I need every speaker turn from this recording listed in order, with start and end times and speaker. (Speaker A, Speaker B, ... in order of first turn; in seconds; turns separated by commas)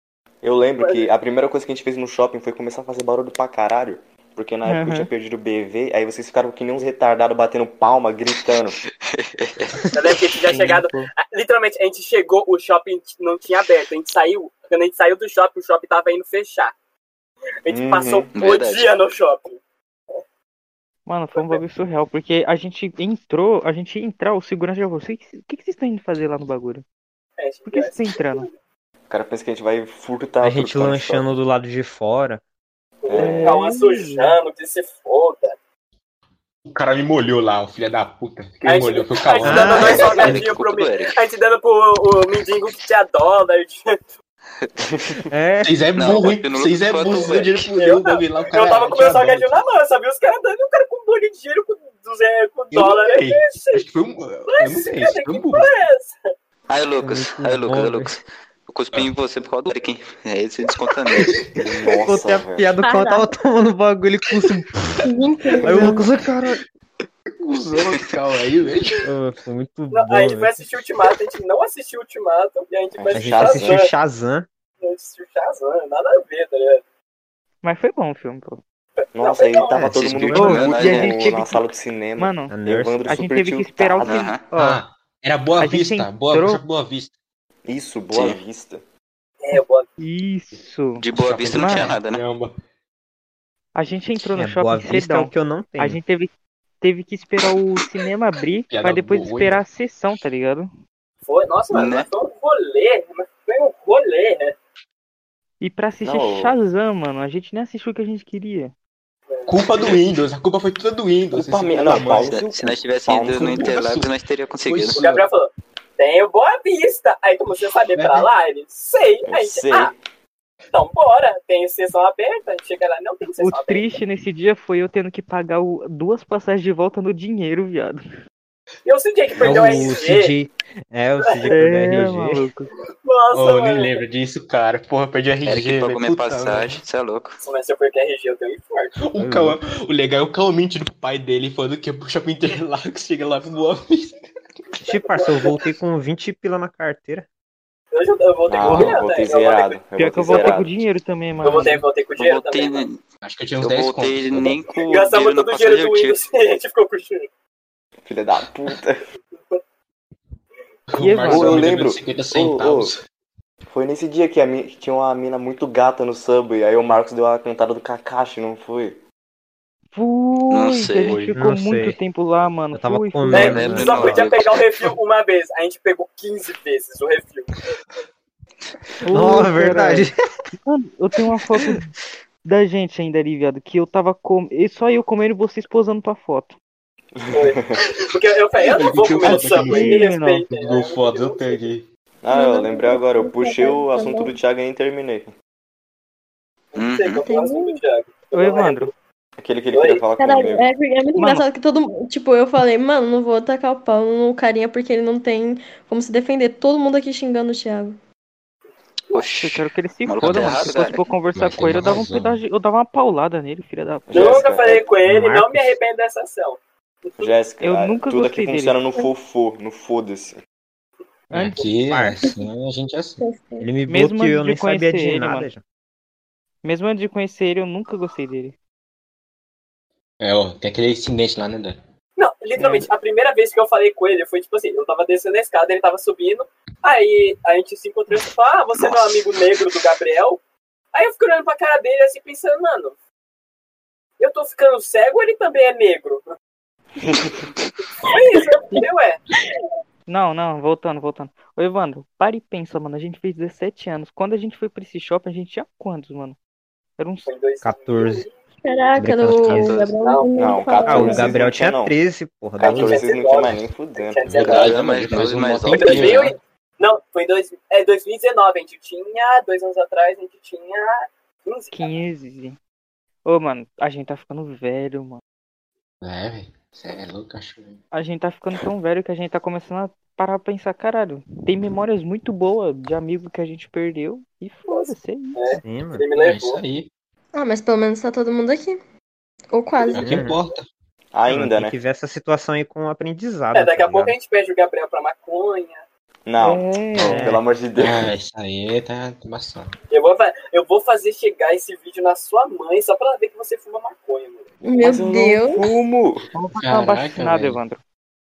Speaker A: 0.4-8.8, Speaker B: 0.8-1.1, Speaker C: 4.7-5.1, Speaker D: 8.8-9.9, Speaker B: 9.9-16.7, Speaker C: 10.5-11.1, Speaker B: 17.6-19.6, Speaker A: 17.7-18.3, Speaker D: 18.3-18.9, Speaker C: 21.1-26.8, Speaker B: 21.3-21.6, Speaker B: 27.4-28.5, Speaker C: 27.7-28.5, Speaker A: 29.1-31.3, Speaker E: 30.4-32.4, Speaker B: 33.0-35.5, Speaker A: 33.0-33.6, Speaker C: 33.1-34.4, Speaker F: 36.7-40.5, Speaker B: 38.6-44.0, Speaker E: 39.4-40.0, Speaker D: 39.8-41.2, Speaker A: 44.8-45.1, Speaker E: 45.3-45.9, Speaker F: 45.6-49.6, Speaker D: 46.0-47.7, Speaker B: 47.8-53.8, Speaker F: 52.7-55.7, Speaker B: 54.5-56.1, Speaker D: 56.7-61.5, Speaker E: 57.0-58.1, Speaker A: 61.5-62.7, Speaker E: 61.9-65.0, Speaker G: 62.8-63.3, Speaker G: 65.0-66.0, Speaker E: 65.6-66.6, Speaker F: 67.4-69.0, Speaker E: 69.0-70.6, Speaker B: 69.9-73.9, Speaker A: 73.0-73.8, Speaker E: 73.3-74.5, Speaker B: 74.8-76.8, Speaker C: 77.6-78.6, Speaker B: 79.0-79.9, Speaker A: 79.1-84.3, Speaker E: 79.7-80.1, Speaker D: 79.9-81.2, Speaker C: 80.3-84.8, Speaker E: 82.5-83.0, Speaker D: 84.0-84.4, Speaker F: 84.5-87.1, Speaker C: 85.6-86.6, Speaker A: 87.6-88.8, Speaker D: 88.1-88.4, Speaker B: 89.4-89.9, Speaker C: 90.0-92.0, Speaker D: 91.0-92.2, Speaker F: 91.1-92.5, Speaker C: 93.7-100.7, Speaker E: 94.3-96.0, Speaker F: 98.7-99.6, Speaker B: 101.2-104.5, Speaker D: 101.7-102.1, Speaker C: 105.6-108.7, Speaker A: 106.0-106.6, Speaker B: 109.3-109.6, Speaker F: 109.5-112.3, Speaker A: 111.3-113.6, Speaker D: 112.1-115.0, Speaker F: 113.3-114.1, Speaker F: 114.6-115.2, Speaker B: 114.9-119.9, Speaker F: 117.9-118.3, Speaker A: 119.3-120.0, Speaker B: 120.7-123.8, Speaker C: 123.4-128.0, Speaker B: 128.8-130.3, Speaker E: 129.4-132.5, Speaker A: 129.5-129.9, Speaker B: 131.2-131.5, Speaker C: 131.5-132.7, Speaker B: 133.0-134.0, Speaker F: 133.3-136.8, Speaker D: 135.4-137.4, Speaker B: 137.4-139.0, Speaker F: 139.0-144.2, Speaker E: 139.2-139.6, Speaker B: 144.7-145.6, Speaker E: 144.8-147.3, Speaker B: 147.9-150.5, Speaker A: 148.5-150.8, Speaker F: 148.7-148.9, Speaker C: 149.9-151.8, Speaker B: 151.4-152.8, Speaker D: 152.2-153.0, Speaker F: 153.2-154.6, Speaker D: 153.6-156.2, Speaker B: 154.8-157.3, Speaker A: 158.1-159.0, Speaker F: 160.9-163.0, Speaker C: 161.0-161.7, Speaker A: 161.2-162.9, Speaker A: 163.7-169.0, Speaker C: 169.9-173.8, Speaker D: 170.5-171.3, Speaker E: 171.3-172.0, Speaker E: 172.7-174.3, Speaker D: 173.3-174.6, Speaker B: 173.3-177.6, Speaker C: 179.0-180.1, Speaker E: 179.1-180.2, Speaker C: 180.6-181.9, Speaker C: 182.4-186.5, Speaker A: 187.1-187.8, Speaker B: 187.3-191.6, Speaker F: 188.6-191.8, Speaker C: 189.2-190.4, Speaker A: 192.2-195.3, Speaker G: 192.3-194.3, Speaker B: 196.7-198.9, Speaker D: 196.7-197.2, Speaker G: 197.2-197.8, Speaker C: 198.3-198.9, Speaker A: 199.4-200.7, Speaker B: 199.7-200.0, Speaker G: 200.2-208.0, Speaker C: 201.2-201.4, Speaker D: 209.1-211.1, Speaker C: 209.3-214.3, Speaker F: 210.2-210.6, Speaker F: 211.3-212.4, Speaker A: 214.1-214.9, Speaker B: 214.1-216.6, Speaker E: 215.0-215.7, Speaker A: 217.2-220.4, Speaker C: 217.6-218.8, Speaker F: 221.3-223.2, Speaker E: 221.3-222.2, Speaker G: 223.2-223.7, Speaker E: 223.6-225.6, Speaker C: 223.9-225.5, Speaker C: 226.6-228.5, Speaker F: 230.2-231.8, Speaker B: 232.2-240.4, Speaker C: 232.6-232.8, Speaker D: 238.8-239.2, Speaker B: 240.9-243.0, Speaker B: 244.2-246.3, Speaker A: 247.0-247.4, Speaker B: 248.0-249.2, Speaker C: 250.1-256.4, Speaker C: 257.0-257.3, Speaker B: 257.2-258.4, Speaker E: 257.6-258.2, Speaker G: 258.6-261.4, Speaker E: 259.0-259.9, Speaker D: 259.5-259.9, Speaker B: 260.0-260.8, Speaker A: 260.4-261.9, Speaker E: 260.9-263.0, Speaker A: 262.6-264.2, Speaker B: 262.6-264.8, Speaker F: 262.6-263.0, Speaker F: 264.2-266.4, Speaker D: 264.4-266.3, Speaker B: 265.8-271.9, Speaker C: 271.7-272.6, Speaker C: 273.2-275.2, Speaker F: 276.0-277.8, Speaker C: 277.9-285.6, Speaker B: 284.7-286.6, Speaker E: 285.6-286.1, Speaker F: 286.1-286.9, Speaker G: 287.3-288.8, Speaker G: 289.5-290.1, Speaker B: 289.8-290.3, Speaker F: 289.9-290.6, Speaker E: 290.0-290.4, Speaker A: 291.1-291.8, Speaker E: 291.3-294.1, Speaker B: 293.5-295.8, Speaker A: 296.2-298.0, Speaker C: 296.4-297.4, Speaker F: 296.9-297.2, Speaker F: 297.8-299.7, Speaker B: 299.9-304.5, Speaker G: 304.6-305.8, Speaker A: 304.8-306.3, Speaker C: 306.3-307.8, Speaker F: 306.6-307.6